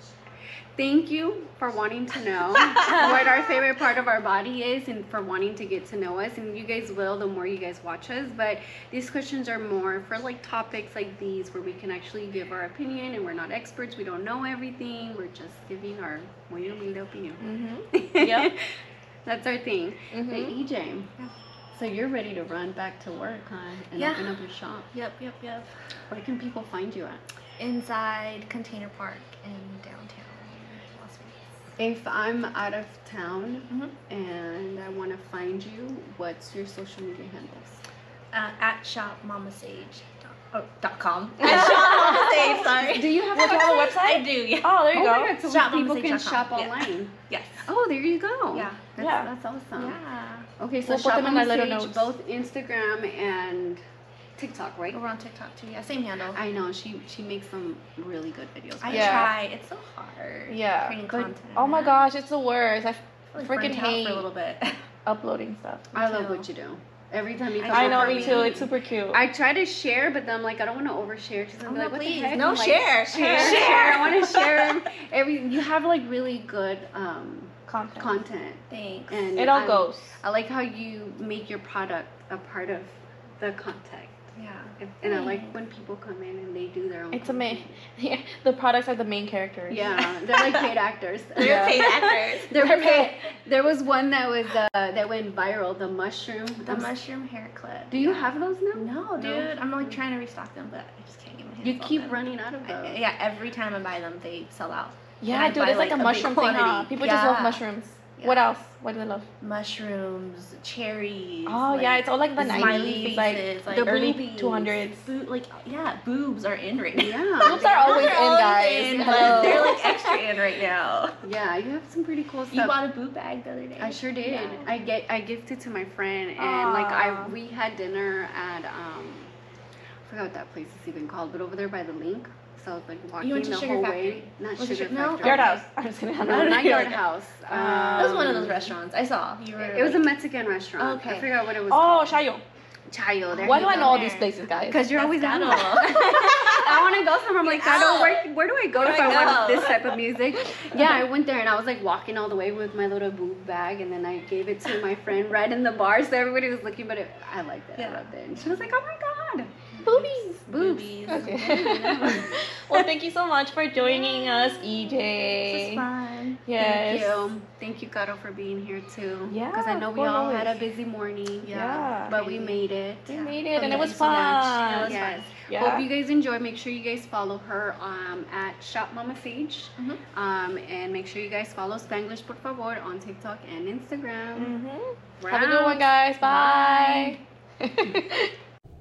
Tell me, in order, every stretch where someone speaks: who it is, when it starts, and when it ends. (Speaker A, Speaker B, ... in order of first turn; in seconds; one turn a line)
Speaker A: 0.8-18.7
Speaker B: 2.6-3.1
Speaker C: 17.4-18.5
Speaker A: 19.3-21.1
Speaker C: 20.1-20.5
Speaker A: 21.7-24.9
Speaker B: 24.0-24.4
Speaker B: 24.9-25.7
Speaker A: 26.1-27.2
Speaker B: 27.6-31.4
Speaker A: 31.8-37.8
Speaker B: 38.3-44.8
Speaker C: 41.4-45.3
Speaker A: 41.5-44.0
Speaker A: 44.9-50.0
Speaker B: 45.4-47.6
Speaker B: 48.5-48.8
Speaker C: 49.0-49.3
Speaker B: 49.8-50.5
Speaker A: 50.6-53.8
Speaker C: 50.9-52.1
Speaker A: 54.4-55.0
Speaker B: 54.9-56.4
Speaker A: 56.3-59.4
Speaker B: 58.8-62.0
Speaker C: 58.9-59.3
Speaker C: 60.5-64.3
Speaker B: 63.3-64.8
Speaker C: 65.0-65.9
Speaker B: 65.9-66.5
Speaker A: 66.0-84.2
Speaker B: 67.6-68.7
Speaker C: 67.7-69.2
Speaker B: 71.7-74.8
Speaker C: 73.2-74.2
Speaker C: 77.7-78.1
Speaker B: 78.7-79.4
Speaker C: 79.4-80.1
Speaker B: 84.3-85.5
Speaker A: 84.8-87.8
Speaker C: 87.1-90.1
Speaker A: 89.7-97.0
Speaker B: 91.4-93.1
Speaker C: 91.4-91.9
Speaker B: 96.7-107.6
Speaker A: 97.9-100.0
Speaker A: 101.6-103.0
Speaker C: 105.2-109.3
Speaker B: 108.2-108.5
Speaker B: 109.4-121.2
Speaker C: 111.5-115.1
Speaker A: 112.4-113.1
Speaker A: 113.7-114.7
Speaker A: 117.0-119.8
Speaker C: 117.4-120.0
Speaker A: 121.2-122.8
Speaker B: 122.5-124.7
Speaker A: 123.8-129.3
Speaker C: 126.4-127.3
Speaker A: 130.1-135.6
Speaker B: 133.2-135.6
Speaker C: 135.2-137.0
Speaker A: 136.2-138.7
Speaker B: 136.3-137.0
Speaker C: 137.5-138.5
Speaker B: 137.9-140.1
Speaker A: 139.6-142.2
Speaker B: 140.8-141.3
Speaker C: 141.7-142.4
Speaker A: 142.9-144.1
Speaker B: 143.3-148.3
Speaker C: 143.4-144.9
Speaker A: 144.7-162.8
Speaker B: 148.8-150.0
Speaker B: 157.8-158.1
Speaker C: 159.8-160.4
Speaker B: 160.4-162.3
Speaker C: 161.1-165.8
Speaker B: 164.4-166.4
Speaker C: 166.5-167.3
Speaker A: 166.6-184.6
Speaker C: 169.3-170.5
Speaker B: 171.4-175.2
Speaker C: 171.5-172.1
Speaker C: 173.1-175.9
Speaker C: 184.4-188.3
Speaker A: 185.2-185.9
Speaker B: 186.2-187.2